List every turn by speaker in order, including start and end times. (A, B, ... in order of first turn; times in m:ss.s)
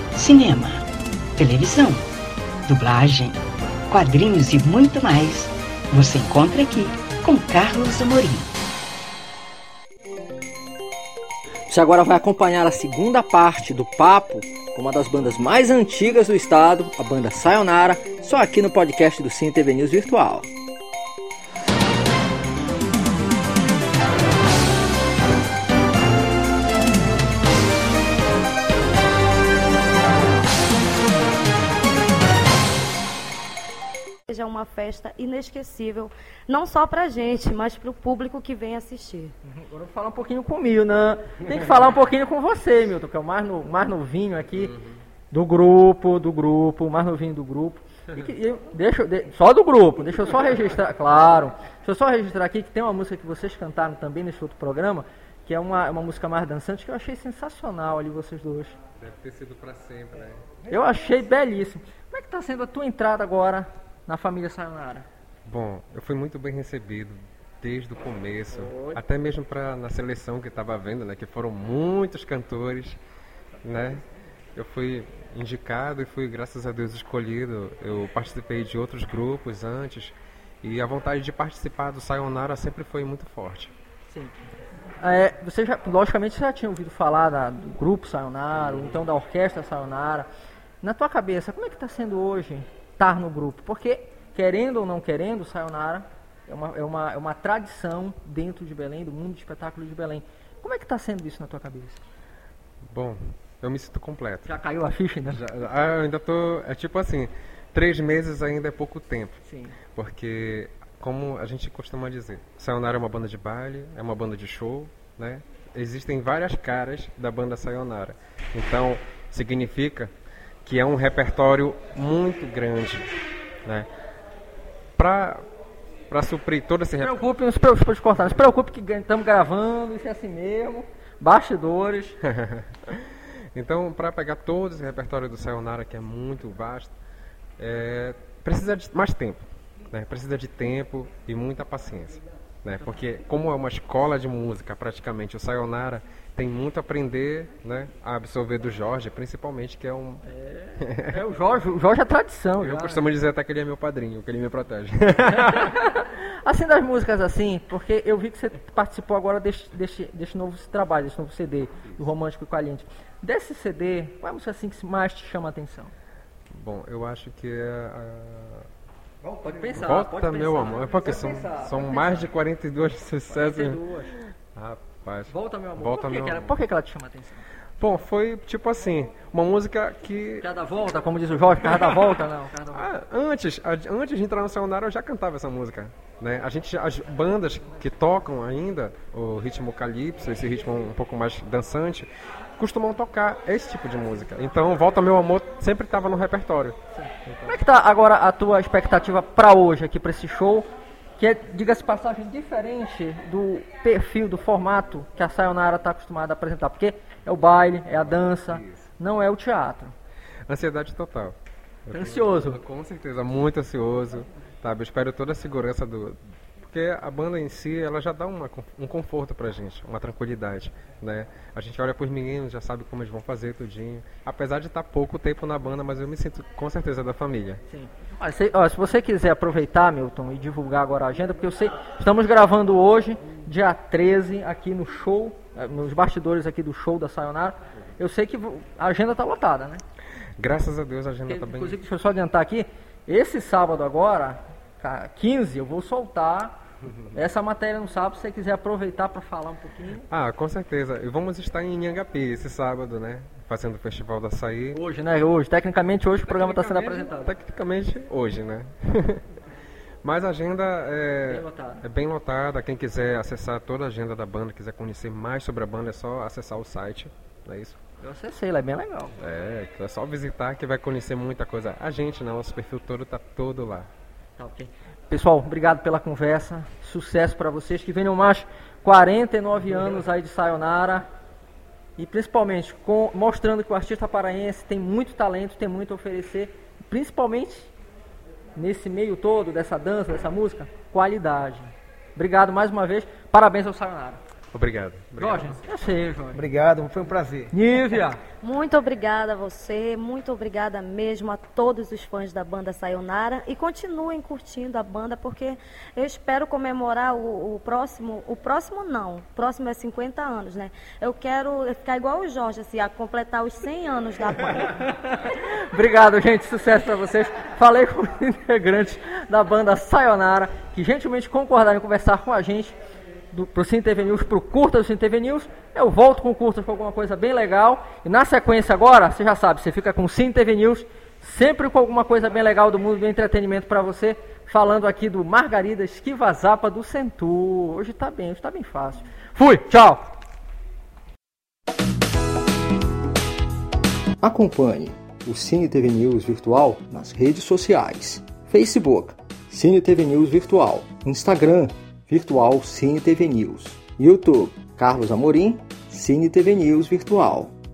0:00.1-0:02.1 A
0:02.7-0:08.5 A
0:11.7-0:20.5 B
0:34.3-0:39.3 C
0:39.5-0:44.8 B
0:45.3-0:58.8 B
0:59.0-1:00.5 D
1:00.7-1:05.1 B
1:05.4-1:13.0 D
1:08.5-1:09.0 B
1:13.6-1:14.0 D
1:14.6-1:23.7 D
1:25.0-1:30.3 B
1:30.8-1:42.0 B
1:42.9-1:44.5 D
1:44.5-1:45.4 B
1:45.3-1:49.4 D
1:49.4-1:49.8 B
1:49.9-2:00.1 D
2:00.6-2:03.1 D
2:05.0-2:05.4 D
2:06.1-2:07.2 D
2:07.0-2:12.2 B
2:12.2-2:17.0 D
2:17.6-2:30.2 D
2:30.3-2:33.1 B
2:30.8-2:31.1 D
2:32.6-2:35.8 D
2:35.6-2:45.9 B
2:46.5-2:48.7 D
2:49.3-2:52.3 B
2:49.8-2:53.8 D
2:53.3-2:54.2 B
2:54.6-2:56.6 D
2:55.3-2:57.4 B
2:57.8-3:00.5 D
3:00.4-3:02.9 B
3:01.6-3:02.2 D
3:02.7-3:17.5 D
3:17.0-3:29.9 B
3:27.9-3:28.8 D
3:30.5-3:31.4 D
3:31.9-3:47.6 D
3:31.9-3:32.6 B
3:47.7-3:59.8 B
4:00.4-4:01.8 D
4:01.3-4:06.6 B
4:07.1-4:10.1 B
4:10.1-4:14.8 D
4:14.7-4:17.3 B
4:16.3-4:19.2 D
4:20.0-4:27.8 D
4:21.3-4:21.8 B
4:28.0-4:29.2 B
4:29.2-4:33.9 D
4:34.4-4:41.1 B
4:42.0-4:47.7 B
4:48.6-4:54.2 B
4:54.5-4:55.6 D
4:55.2-4:56.7 B
4:57.0-4:57.3 D
4:57.5-4:58.2 B
4:58.4-4:59.2 C
5:04.0-5:06.0 C
5:08.0-5:12.5 C
5:13.2-5:14.6 C
5:14.6-5:22.8 B
5:23.3-5:40.1 B
5:44.2-5:57.5 E